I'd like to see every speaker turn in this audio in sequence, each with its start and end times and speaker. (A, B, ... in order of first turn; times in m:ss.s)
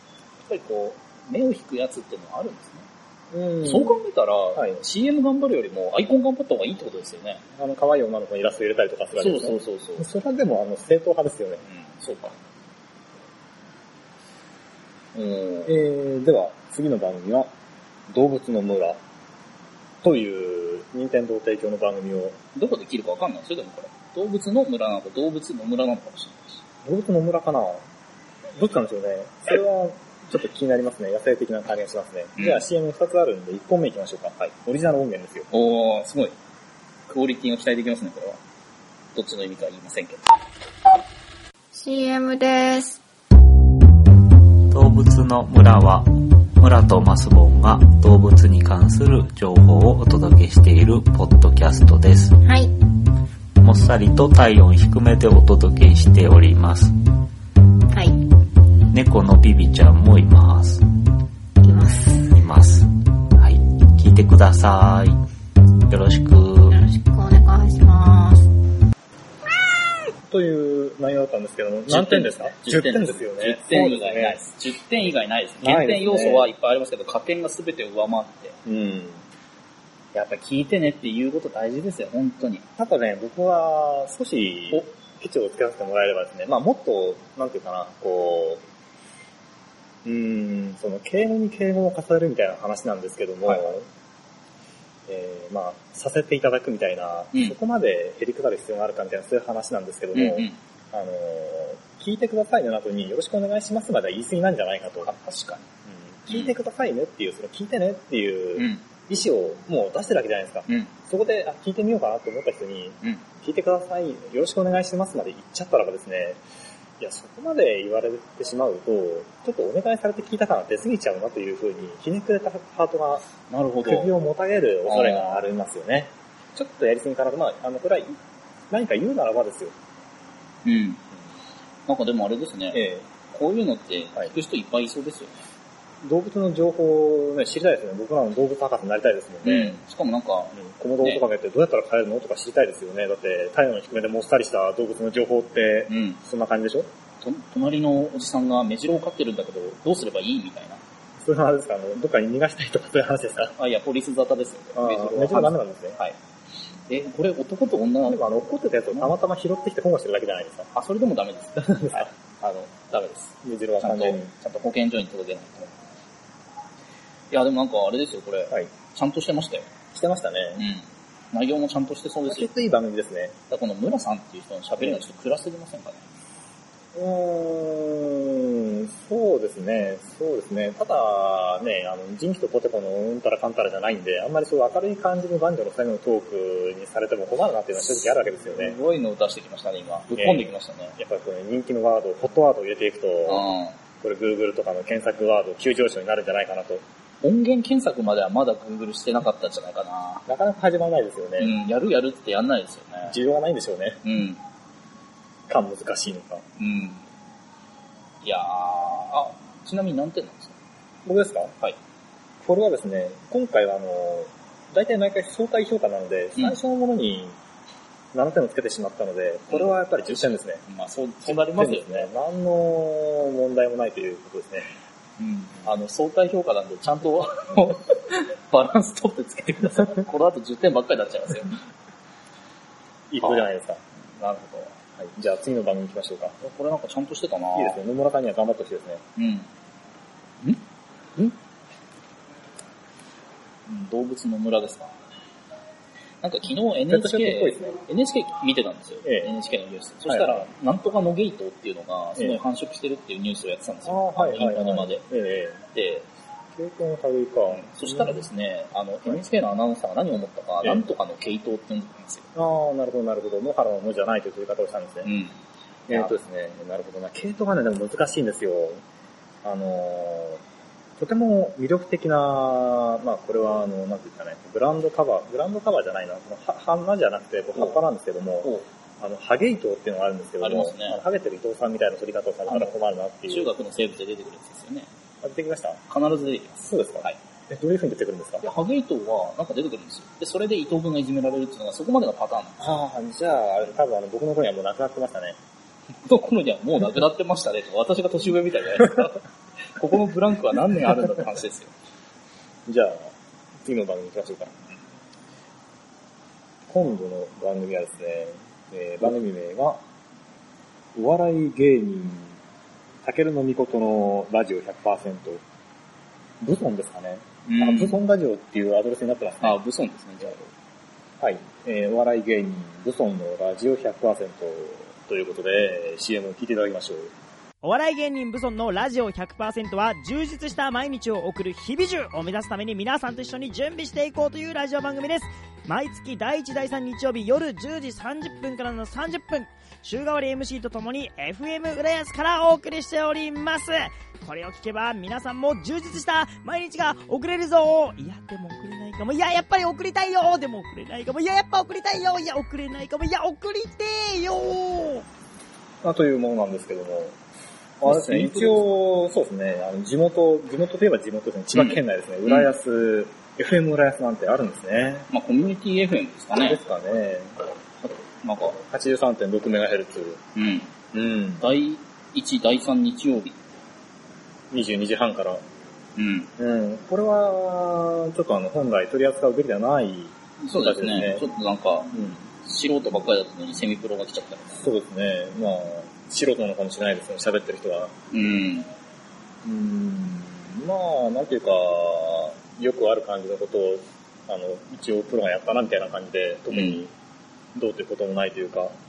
0:00.4-0:02.9 A
0:03.3-0:04.0 B
0:03.6-0:07.4 A
0:04.6-0:04.8 B
0:07.6-0:11.6 B
0:09.2-0:10.1 A
0:11.7-0:12.4 A
0:15.1-0:15.8 A
0:15.7-0:17.5 B
0:18.1-0:19.0 B
0:20.0-0:22.4 B
0:22.6-0:26.6 A
0:26.8-0:27.8 B
0:28.6-0:35.5 B
0:32.4-0:32.6 A
0:35.5-0:36.4 A
0:37.1-0:38.4 A
0:39.1-0:40.3 A
0:41.7-0:43.0 C
0:44.7-0:52.4 D
0:52.4-0:52.7 C
0:53.6-0:56.9 D
0:57.9-0:58.2 C
0:58.9-1:00.8 D
1:01.6-1:02.3 C
1:02.3-1:05.2 D
1:05.9-1:06.8 D
1:06.7-1:08.5 C
1:10.3-1:14.4 B
1:11.9-1:18.6 A
1:15.6-1:16.5 B
1:18.7-1:19.2 B
1:20.1-1:22.6 A
1:22.8-1:28.6 B
1:30.0-1:33.9 B
1:33.5-1:33.7 A
1:35.1-1:45.1 B
1:40.1-1:40.6 A
1:45.0-1:45.7 A
1:45.9-1:56.4 B
1:46.3-1:46.6 A
1:48.6-1:48.8 A
1:50.7-1:50.9 A
1:57.0-2:03.2 B
2:03.5-2:04.1 A
2:03.8-2:08.2 B
2:04.9-2:05.4 A
2:08.7-2:09.7 B
2:10.6-2:11.0 A
2:11.9-2:15.4 A
2:12.7-2:13.0 B
2:16.0-2:19.8 B
2:19.4-2:21.2 A
2:20.6-2:26.9 B
2:25.9-2:26.2 A
2:27.2-2:30.8 A
2:31.2-2:33.5 B
2:33.6-2:36.2 A
2:34.8-2:36.0 B
2:36.9-2:38.2 A
2:38.1-2:40.7 B
2:40.7-2:45.8 A
2:41.6-2:42.1 B
2:43.4-2:44.3 B
2:47.3-2:49.7 A
2:49.9-2:50.6 B
2:50.6-2:52.5 A
2:52.3-2:53.3 B
2:53.5-2:56.0 A
2:57.0-3:08.8 B
3:07.8-3:11.0 A
3:10.1-3:13.5 B
3:13.3-3:13.8 A
3:14.0-3:16.8 B
3:17.2-3:20.2 A
3:20.3-3:21.6 B
3:21.4-3:23.2 A
3:23.1-3:24.0 B
3:24.0-3:24.4 A
3:25.5-3:26.4 B
3:26.6-3:27.0 A
3:28.2-3:30.6 A
3:31.0-3:31.5 B
3:32.4-3:37.4 B
3:38.1-3:40.6 B
3:39.5-3:42.1 A
3:41.2-3:44.7 B
3:45.2-3:51.6 A
3:53.1-3:53.8 B
3:53.2-3:53.5 A
3:54.2-3:54.8 A
3:55.0-3:56.4 B
3:56.4-3:57.8 A
3:57.6-3:59.0 B
3:59.2-3:59.5 A
4:03.7-4:04.9 A
4:06.2-4:15.0 A
4:06.9-4:07.7 B
4:09.0-4:09.3 B
4:10.1-4:10.5 B
4:13.9-4:15.6 B
4:15.7-4:16.1 A
4:16.6-4:18.2 B
4:17.5-4:22.3 A
4:20.6-4:20.9 B
4:22.4-4:25.1 B
4:25.0-4:25.4 A
4:25.9-4:28.8 B
4:25.9-4:26.2 A
4:29.4-4:30.4 B
4:31.0-4:43.5 B
4:37.6-4:37.8 A
4:40.4-4:41.0 A
4:42.5-4:42.7 A
4:43.3-4:44.9 A
4:45.2-4:45.8 B
4:45.9-4:47.2 A
4:46.6-4:48.5 B
4:48.4-4:52.7 A
4:52.6-4:55.4 B
4:56.0-4:59.2 A
4:59.8-5:01.7 A
5:02.7-5:03.1 B
5:03.6-5:04.6 B
5:06.7-5:09.8 B
5:11.0-5:12.4 B
5:13.0-5:15.4 B
5:16.4-5:19.6 B
5:17.5-5:18.0 A
5:19.4-5:20.5 A
5:21.2-5:27.1 B
5:27.6-5:55.0 E
5:55.8-5:57.2 B
5:57.8-6:05.1 B
5:57.8-5:58.6 A
6:01.5-6:02.5 A
6:05.1-6:06.6 A
6:06.3-6:07.4 B
6:07.8-6:08.6 A
6:08.7-6:10.2 B
6:10.4-6:10.7 A
6:10.9-6:11.5 B
6:11.4-6:13.4 A
6:14.5-6:15.4 B
6:16.0-6:16.3 A
6:16.4-6:21.3 B
6:20.4-6:24.6 A
6:21.9-6:22.2 B
6:24.6-6:27.9 B
6:28.1-6:28.7 A
6:29.4-6:36.9 B
6:36.5-6:36.8 A
6:37.6-6:38.7 B